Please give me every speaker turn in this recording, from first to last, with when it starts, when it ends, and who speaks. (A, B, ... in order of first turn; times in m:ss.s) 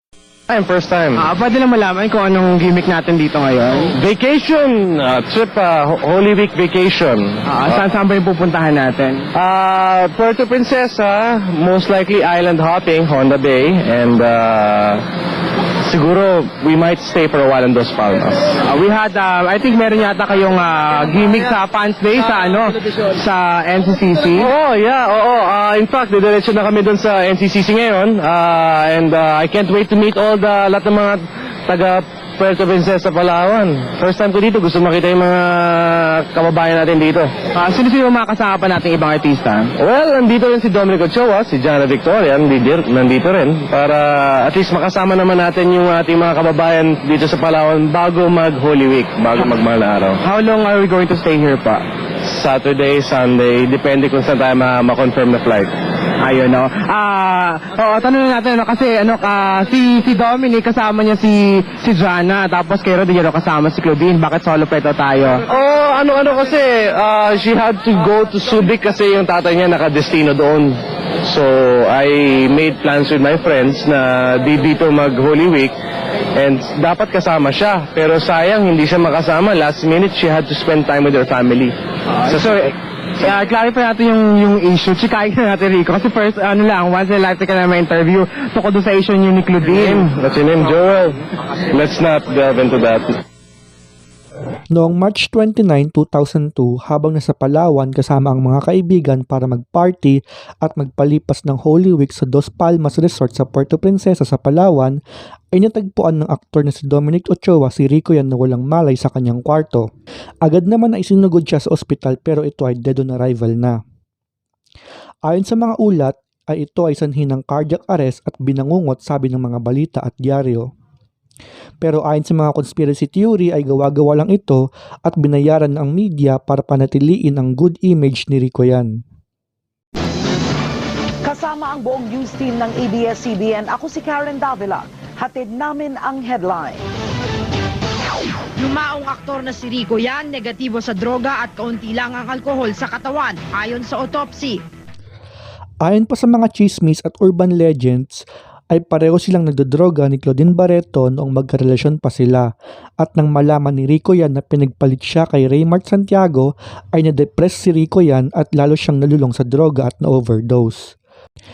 0:00.5-0:01.2 A
0:01.2-0:03.9 B
0:03.8-0:07.9 A
0:07.4-0:09.3 B
0:09.3-0:15.0 A
0:15.8-0:18.5 A
0:18.6-0:24.5 B
0:24.3-0:37.3 A
0:37.5-0:39.7 B
0:39.8-0:50.2 A
0:50.2-0:51.8 B
0:52.2-0:55.7 A
0:56.2-1:05.4 B
1:05.4-1:15.7 A
1:16.3-1:21.7 A
1:22.2-1:22.6 B
1:22.3-1:22.7 A
1:23.2-1:30.1 B
1:29.6-1:33.2 A
1:34.7-1:45.0 C
1:45.5-1:49.9 C
1:50.4-1:53.8 C
1:55.2-2:00.7 C
2:01.8-2:08.9 C
2:11.2-2:16.8 D
2:18.6-2:24.6 E
2:25.8-2:32.5 C
2:33.0-2:40.9 C